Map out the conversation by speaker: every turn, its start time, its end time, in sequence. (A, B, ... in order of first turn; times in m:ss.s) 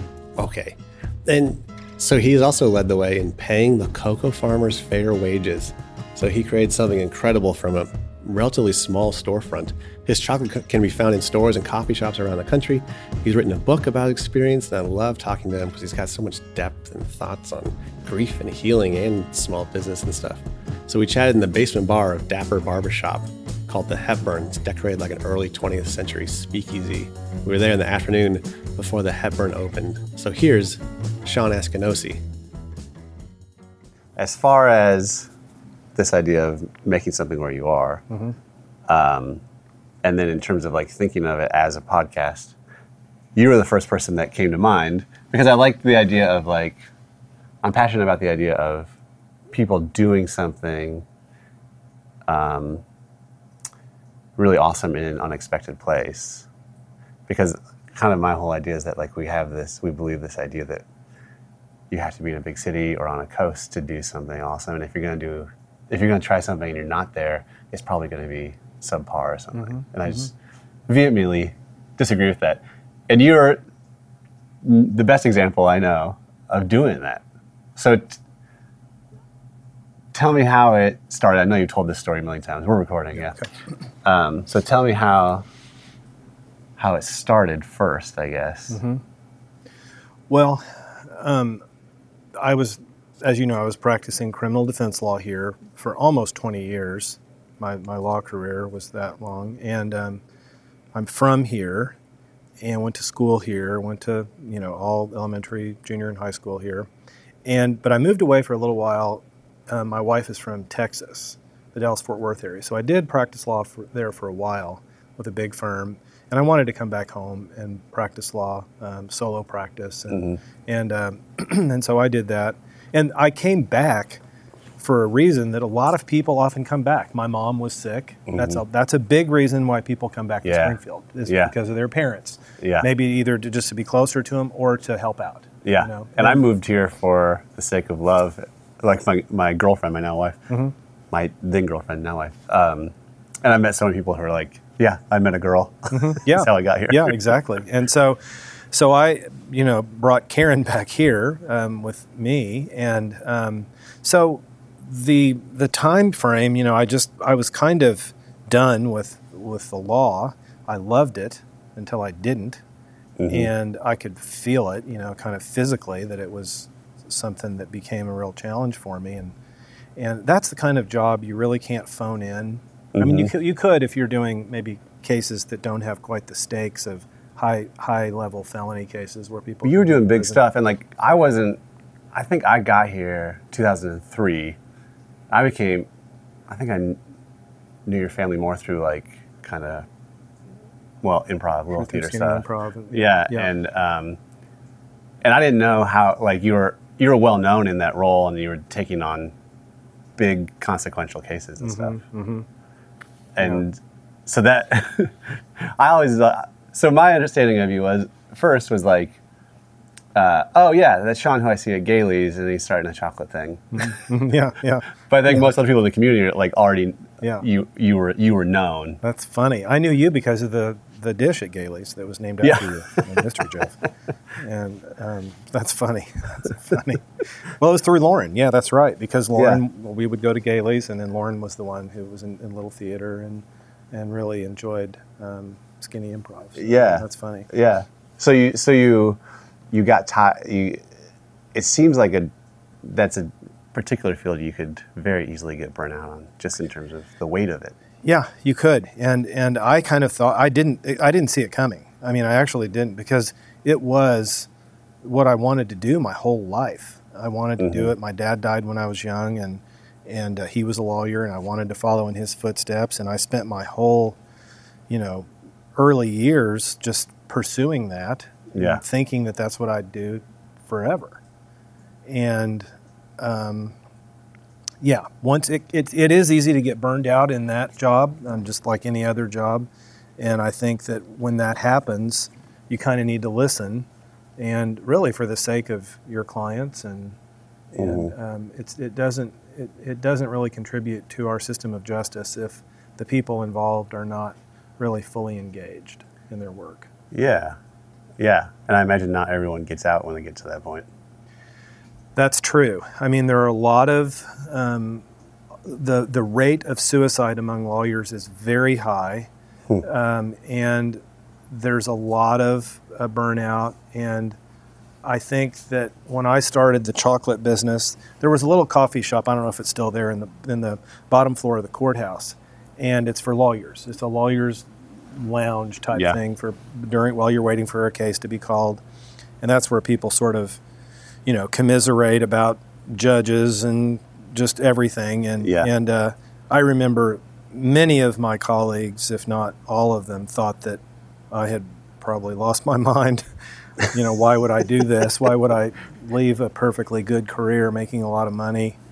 0:00.4-0:32.2 A
0:34.2-0:35.3 B
0:36.0-0:38.0 B
0:38.9-0:39.4 B
0:40.0-0:42.5 B
0:43.4-0:46.8 B
0:47.6-0:48.9 B
0:49.5-0:51.0 B
0:52.3-0:52.8 B
0:54.4-0:56.4 B
0:57.3-1:00.8 B
1:01.9-1:10.3 B
1:09.6-1:09.8 C
1:10.9-1:13.6 B
1:14.6-1:17.2 B
1:17.8-1:18.2 B
1:20.1-1:23.4 B
1:24.0-1:25.4 B
1:26.8-1:28.8 B
1:28.7-1:29.0 C
1:30.3-1:31.6 C
1:32.4-1:40.2 C
1:40.9-1:42.0 C
1:42.6-1:46.9 C
1:47.4-2:04.2 C
2:00.1-2:00.4 B
2:04.8-2:16.4 C
2:08.3-2:08.6 B
2:10.4-2:11.5 B
2:12.6-2:12.8 B
2:15.6-2:20.4 B
2:21.1-2:27.2 B
2:25.9-2:28.2 C
2:28.7-2:42.6 C
2:43.2-2:43.5 B
2:43.3-2:49.3 C
2:50.0-3:00.4 C
2:52.9-2:53.3 B
2:59.6-3:01.6 B
3:02.1-3:04.6 B
3:05.3-3:05.9 B
3:06.5-3:07.0 B
3:07.8-3:09.8 B
3:11.0-3:14.2 B
3:11.8-3:13.5 C
3:15.2-3:19.3 B
3:20.2-3:22.0 B
3:21.6-3:22.4 C
3:23.4-3:29.2 B
3:30.1-3:34.0 B
3:33.7-3:35.4 C
3:35.1-3:39.0 B
3:39.0-3:43.8 C
3:42.4-3:43.4 B
3:44.4-3:57.5 C
3:49.4-3:49.6 B
3:56.6-3:59.2 B
3:59.7-4:00.8 B
4:01.5-4:02.3 B
4:02.8-4:07.7 B
4:08.0-4:14.5 C
4:15.0-4:24.2 C
4:17.6-4:17.9 B
4:24.9-4:31.2 C
4:28.5-4:28.8 B
4:32.1-4:33.7 C
4:34.8-4:43.9 C
4:44.4-4:47.2 C
4:47.7-4:56.9 C
4:47.8-4:48.1 B
4:57.1-4:57.6 B
4:58.2-5:00.9 B
5:02.2-5:05.0 C
5:05.6-5:09.3 C
5:09.8-5:14.4 C
5:15.0-5:28.8 C
5:29.4-5:30.6 C
5:31.2-5:43.2 C
5:35.4-5:35.7 B
5:43.8-5:48.8 C